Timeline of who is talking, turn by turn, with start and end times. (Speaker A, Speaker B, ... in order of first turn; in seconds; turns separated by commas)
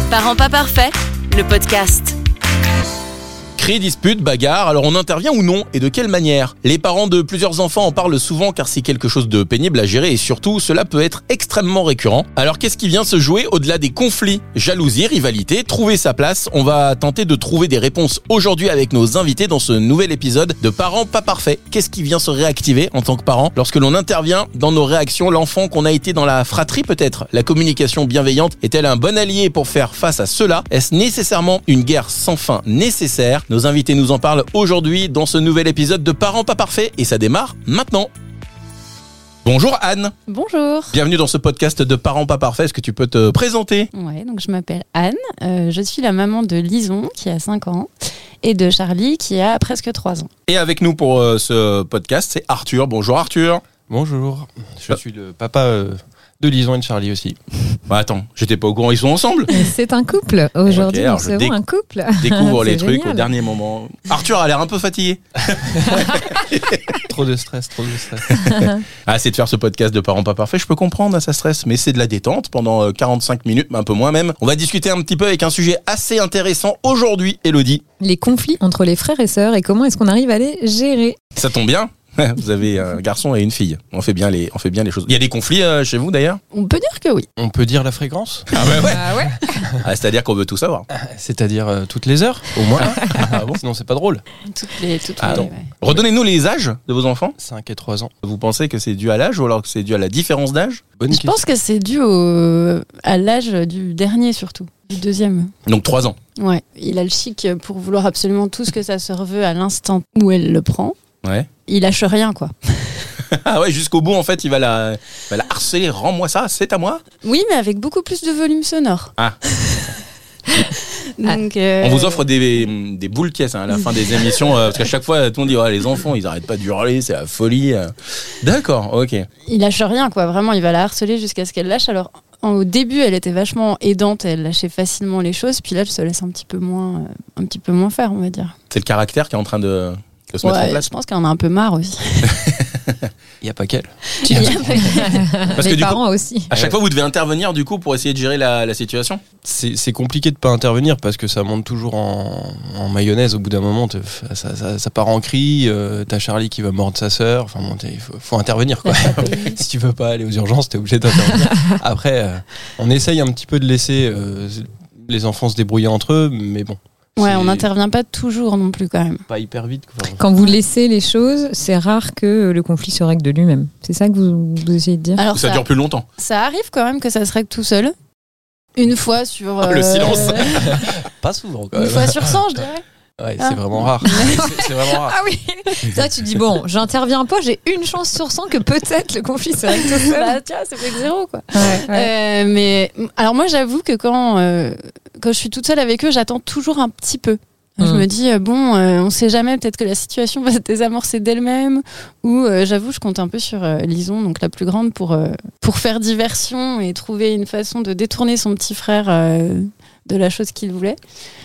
Speaker A: 0.1-2.2, Speaker B: 3.6-38.1, Speaker B: 39.4-40.1, Speaker C: 40.3-41.0, Speaker B: 40.9-43.9, Speaker C: 43.9-47.9, Speaker C: 48.4-50.3, Speaker B: 50.5-53.6, Speaker D: 53.9-57.4, Speaker B: 57.9-59.6, Speaker E: 59.5-63.3, Speaker B: 60.7-61.6, Speaker B: 62.2-67.0, Speaker D: 67.0-68.4, Speaker B: 68.3-77.8, Speaker E: 68.4-68.8, Speaker E: 78.0-81.2, Speaker B: 81.4-86.4, Speaker C: 86.5-87.3, Speaker D: 87.4-89.8, Speaker B: 88.5-89.1, Speaker E: 88.8-89.7, Speaker B: 89.8-90.9, Speaker D: 90.9-94.2, Speaker B: 92.8-93.6, Speaker C: 94.5-95.7, Speaker B: 95.2-97.3, Speaker D: 95.2-96.0, Speaker D: 97.4-98.1, Speaker B: 98.2-100.8, Speaker D: 101.0-101.4, Speaker C: 101.1-105.5, Speaker B: 105.7-106.2, Speaker C: 106.4-111.0, Speaker C: 111.7-113.1, Speaker B: 113.3-117.0, Speaker C: 117.2-119.8, Speaker B: 119.2-120.0, Speaker C: 120.5-122.2, Speaker B: 121.8-129.3, Speaker C: 129.5-138.5, Speaker B: 138.7-140.9, Speaker C: 140.4-142.6, Speaker B: 142.3-143.1, Speaker D: 143.4-145.1, Speaker C: 144.2-145.3, Speaker E: 144.2-146.5, Speaker B: 145.6-149.2, Speaker D: 146.5-146.8, Speaker D: 149.4-167.7, Speaker C: 158.8-159.6, Speaker E: 161.5-161.8, Speaker C: 167.2-169.2, Speaker D: 169.3-170.2, Speaker E: 170.2-175.2, Speaker C: 175.2-177.9, Speaker B: 175.3-176.1, Speaker C: 178.8-180.8, Speaker B: 179.6-180.9, Speaker D: 180.5-182.6, Speaker C: 181.8-182.8, Speaker D: 183.2-185.2, Speaker C: 183.4-184.6, Speaker E: 184.1-190.4, Speaker C: 189.8-211.0, Speaker E: 191.5-192.1, Speaker E: 197.8-198.1